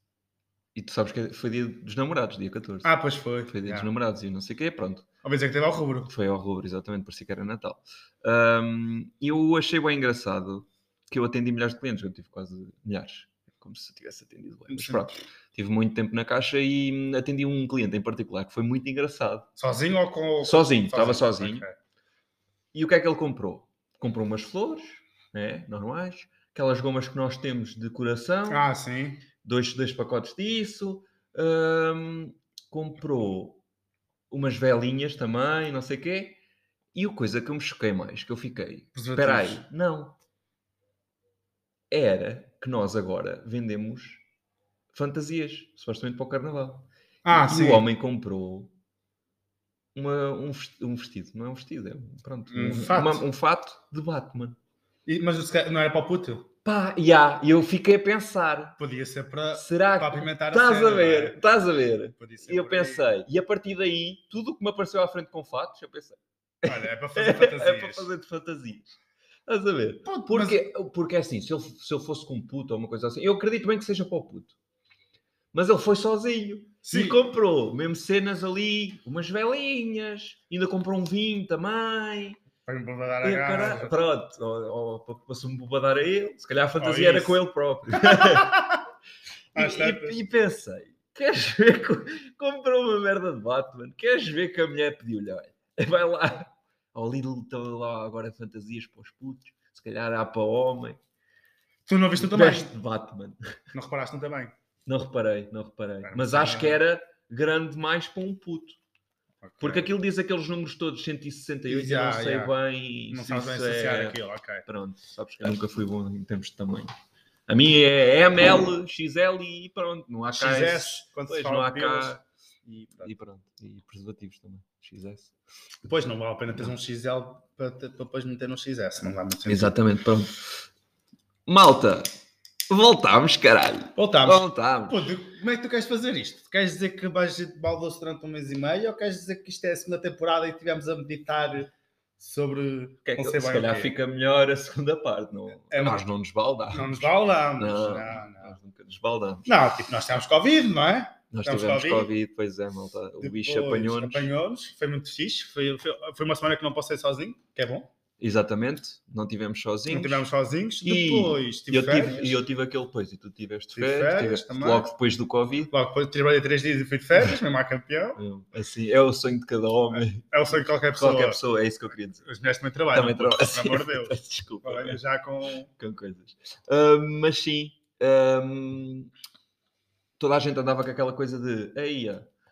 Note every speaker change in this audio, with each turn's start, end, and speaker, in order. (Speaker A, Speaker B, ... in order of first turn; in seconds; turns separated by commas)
Speaker A: 0.7-2.9, Speaker B: 2.8-3.9, Speaker A: 3.5-5.0, Speaker B: 5.2-6.1, Speaker A: 6.0-19.5, Speaker B: 14.7-15.1, Speaker B: 19.6-21.8, Speaker A: 20.4-21.6, Speaker A: 22.7-28.6, Speaker B: 28.5-29.2, Speaker A: 29.4-33.6, Speaker A: 34.3-36.4, Speaker A: 36.9-40.1, Speaker B: 39.0-39.6, Speaker A: 41.9-44.2, Speaker A: 44.9-48.7, Speaker B: 47.2-47.8, Speaker A: 49.9-54.6, Speaker B: 52.5-53.2, Speaker B: 55.0-56.5, Speaker A: 56.6-58.8, Speaker B: 58.8-61.4, Speaker A: 59.5-68.9, Speaker B: 62.1-63.1, Speaker B: 66.7-68.1, Speaker A: 69.5-74.5, Speaker B: 70.0-70.7, Speaker A: 75.5-82.4, Speaker B: 76.8-77.2, Speaker B: 82.7-83.9, Speaker A: 83.2-88.6, Speaker B: 86.8-87.4, Speaker B: 87.9-88.8, Speaker B: 89.5-90.2, Speaker A: 89.5-101.0, Speaker B: 101.8-102.7, Speaker A: 102.2-103.5, Speaker B: 103.7-104.5, Speaker A: 104.8-108.8, Speaker B: 106.0-106.8, Speaker B: 109.4-109.9, Speaker A: 109.6-116.9, Speaker B: 111.7-112.5, Speaker B: 113.1-114.6, Speaker A: 117.5-122.2, Speaker B: 120.3-123.1, Speaker A: 123.0-125.3, Speaker B: 125.8-129.7, Speaker A: 129.5-130.4, Speaker A: 131.5-132.1, Speaker A: 132.7-135.1, Speaker B: 133.9-143.9, Speaker A: 143.0-149.5, Speaker B: 145.7-146.1, Speaker B: 146.7-148.5, Speaker B: 149.4-152.1, Speaker A: 151.3-154.3, Speaker B: 153.2-157.9, Speaker A: 158.2-160.2, Speaker B: 159.9-162.4, Speaker A: 160.8-165.7, Speaker B: 163.7-164.8, Speaker B: 165.7-168.2, Speaker A: 168.2-170.2, Speaker B: 169.9-171.4, Speaker A: 170.9-172.2, Speaker B: 172.2-175.7, Speaker A: 172.9-175.0, Speaker A: 175.8-179.1, Speaker A: 180.2-182.3